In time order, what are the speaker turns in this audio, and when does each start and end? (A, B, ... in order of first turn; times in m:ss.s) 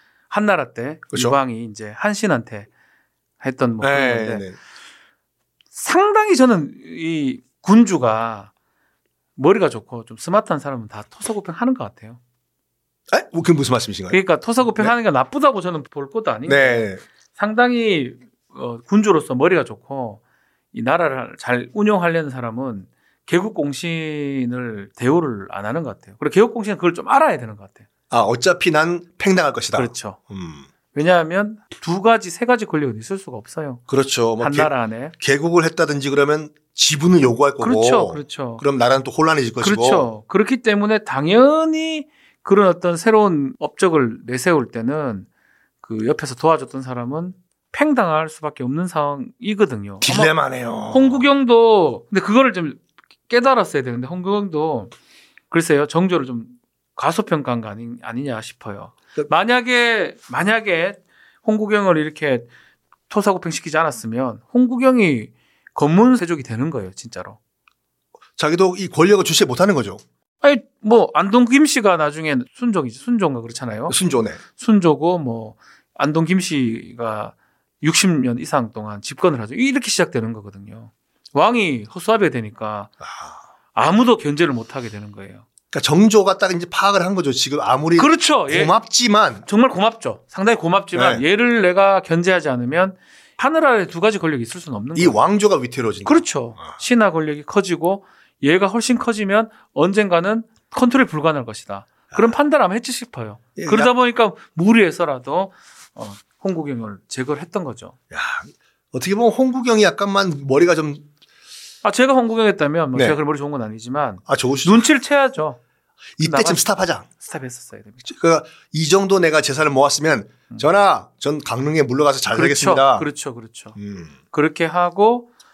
0:00.3-0:02.7 A
0:01.1-0:01.4 B
0:03.4-0:04.5 A
0:03.8-0:04.6 B
0:05.8-0:08.5 A
0:09.4-0:12.2 A
0:13.1-0:14.2 B
0:14.1-0:20.2 A
0:16.5-0:17.0 B
0:20.7-0:27.9 A
0:28.1-0:30.7 B
0:29.7-0:30.2 A
0:30.9-0:33.8 A
0:33.9-0:40.1 B
0:34.4-0:35.1 A
0:37.6-0:38.6 A
0:39.6-0:45.3 A
0:45.8-0:50.4 A
0:50.0-0:51.3 B
0:50.9-0:54.9 A
0:55.5-1:02.5 A
1:03.1-1:07.4 A
1:08.4-1:10.0 B
1:10.4-1:14.0 A
1:13.9-1:14.4 B
1:14.6-1:22.9 A
1:23.0-1:23.4 B
1:23.8-1:25.4 A
1:25.7-1:29.4 B
1:28.0-1:28.7 A
1:29.4-1:35.2 A
1:30.9-1:31.2 B
1:35.0-1:36.2 B
1:36.1-1:48.0 A
1:43.6-1:43.9 B
1:48.1-1:51.1 B
1:51.8-1:55.6 A
1:52.9-1:53.2 B
1:54.3-1:54.9 B
1:56.2-1:57.1 B
1:56.2-1:58.0 A
1:58.0-2:03.1 B
2:02.3-2:03.8 A
2:03.8-2:04.1 B
2:04.3-2:05.3 A